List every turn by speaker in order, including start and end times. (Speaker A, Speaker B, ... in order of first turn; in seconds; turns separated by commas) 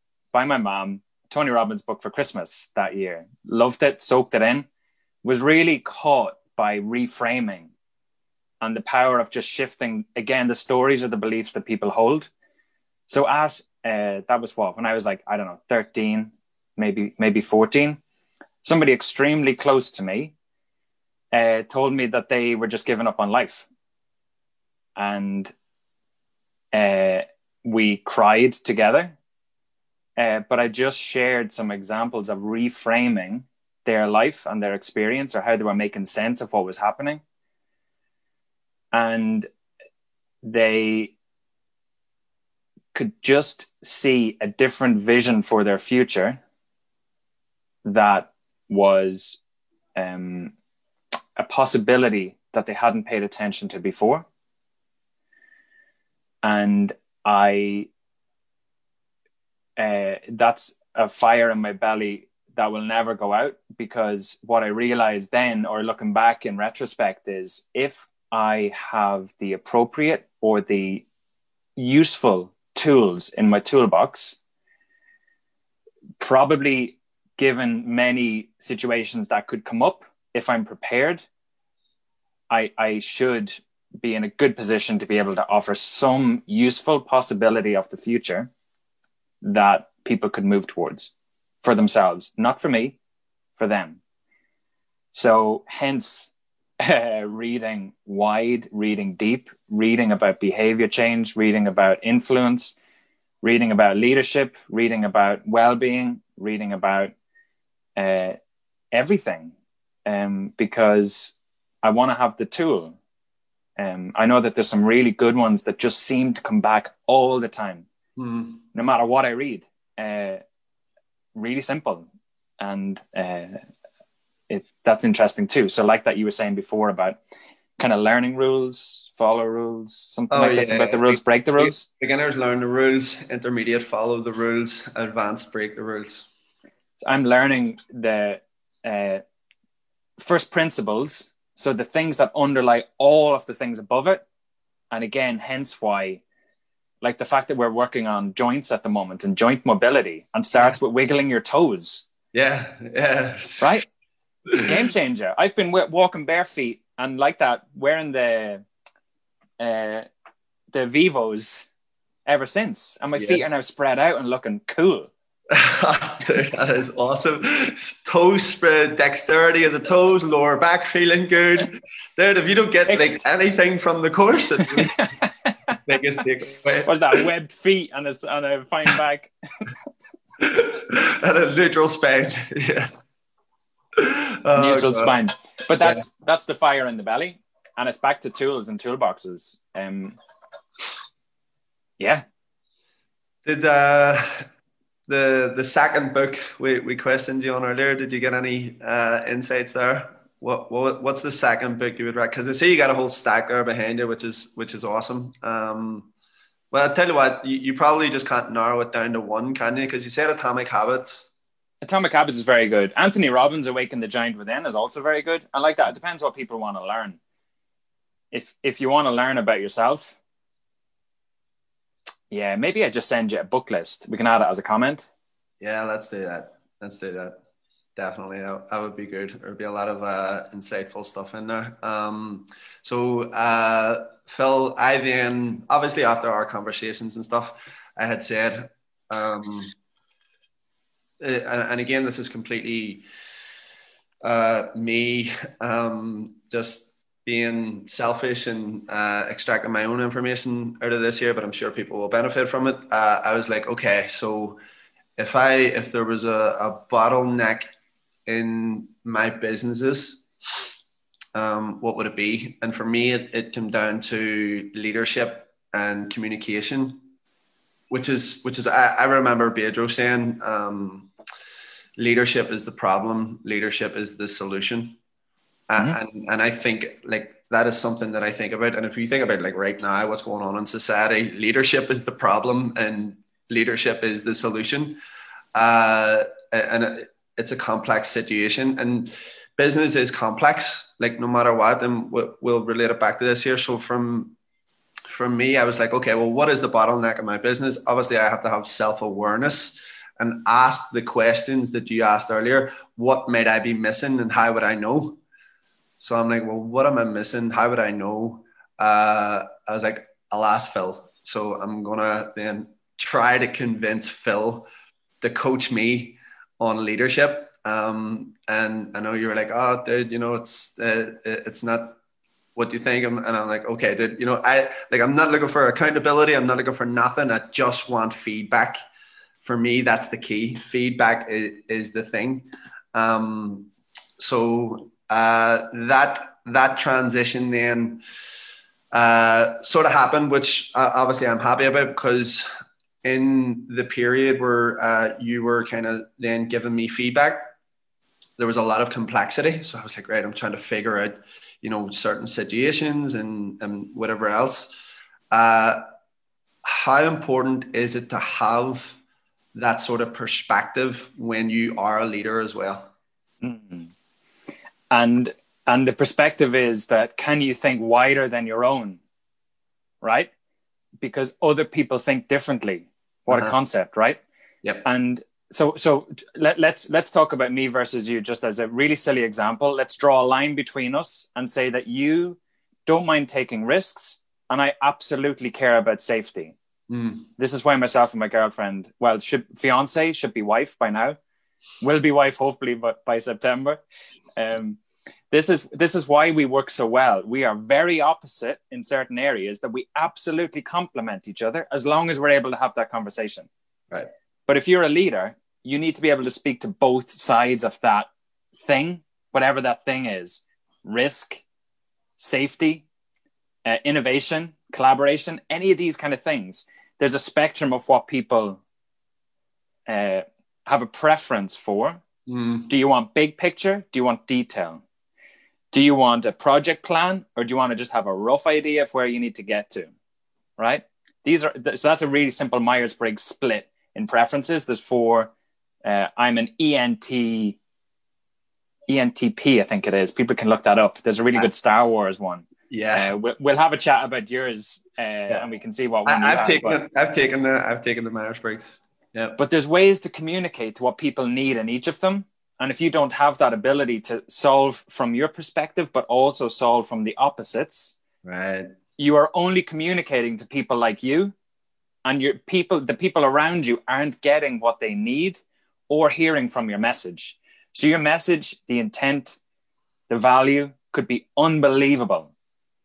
Speaker A: 0.3-4.7, Speaker A: 5.2-7.7, Speaker A: 8.6-12.3, Speaker A: 13.1-18.0, Speaker A: 18.6-20.3, Speaker A: 21.3-23.6, Speaker A: 25.0-25.5, Speaker A: 26.7-29.1, Speaker A: 30.2-37.2, Speaker A: 38.9-39.5, Speaker A: 40.4-41.1, Speaker A: 42.9-46.4, Speaker A: 47.8-49.4, Speaker A: 50.0-50.5, Speaker A: 51.4-54.2, Speaker A: 56.4-57.9, Speaker A: 59.8-71.0, Speaker A: 71.8-74.4, Speaker A: 76.2-81.2, Speaker A: 82.5-88.5, Speaker A: 89.4-93.0, Speaker A: 93.6-94.0, Speaker A: 95.1-102.8, Speaker A: 103.4-107.1, Speaker A: 108.0-108.4, Speaker A: 108.9-109.5, Speaker A: 110.0-113.0, Speaker A: 113.8-117.8, Speaker B: 118.2-118.6, Speaker A: 118.7-120.4, Speaker A: 121.3-122.0, Speaker A: 122.6-123.6, Speaker A: 124.5-127.2, Speaker A: 127.8-131.8, Speaker B: 130.3-136.3, Speaker A: 137.0-139.2, Speaker A: 140.2-144.2, Speaker A: 144.9-146.2, Speaker A: 147.0-152.0, Speaker B: 152.3-153.8, Speaker A: 153.6-153.8, Speaker A: 154.6-158.6, Speaker A: 159.6-160.1, Speaker A: 160.7-161.7, Speaker A: 162.2-165.1, Speaker B: 165.5-175.0, Speaker A: 172.9-173.2, Speaker A: 174.8-175.8, Speaker B: 175.8-177.2, Speaker A: 176.8-179.7, Speaker B: 180.4-183.0, Speaker B: 184.0-185.1, Speaker A: 184.5-190.2, Speaker B: 185.8-186.0, Speaker A: 192.0-192.2, Speaker B: 193.4-194.4, Speaker B: 195.1-206.1, Speaker B: 206.7-211.3, Speaker A: 211.8-217.2, Speaker A: 218.3-220.2, Speaker A: 222.3-225.1, Speaker B: 225.6-227.4, Speaker B: 228.0-239.7, Speaker B: 241.2-243.0, Speaker B: 244.2-254.6, Speaker B: 255.2-257.7, Speaker B: 258.2-260.2, Speaker B: 261.3-267.0, Speaker B: 267.9-271.1, Speaker B: 272.0-275.0, Speaker B: 275.7-285.0, Speaker B: 285.5-294.4, Speaker B: 295.1-305.2, Speaker B: 306.0-314.7, Speaker B: 315.2-322.0, Speaker B: 322.6-328.8, Speaker B: 329.4-338.0, Speaker B: 338.9-342.5, Speaker B: 343.0-347.5, Speaker B: 348.4-354.7, Speaker B: 355.3-355.8, Speaker B: 356.6-359.0, Speaker B: 359.5-362.9, Speaker A: 363.4-363.9, Speaker A: 364.9-369.0, Speaker A: 370.0-370.3, Speaker A: 371.0-374.2, Speaker B: 373.3-373.5, Speaker A: 374.8-386.5, Speaker B: 386.9-387.3, Speaker A: 387.4-391.2, Speaker A: 391.8-393.8, Speaker A: 394.4-394.8, Speaker A: 395.3-403.5, Speaker A: 404.5-408.1, Speaker A: 408.6-411.4, Speaker A: 412.2-412.8, Speaker A: 413.6-418.6, Speaker A: 419.9-422.0, Speaker B: 422.3-422.7, Speaker A: 422.7-424.8, Speaker A: 425.7-429.9, Speaker A: 430.6-435.3, Speaker A: 435.8-437.6, Speaker A: 438.9-446.8, Speaker B: 442.7-443.1, Speaker B: 446.1-449.4, Speaker A: 449.4-457.9, Speaker B: 458.2-458.7, Speaker A: 459.0-461.3, Speaker A: 462.0-469.4, Speaker A: 470.1-472.3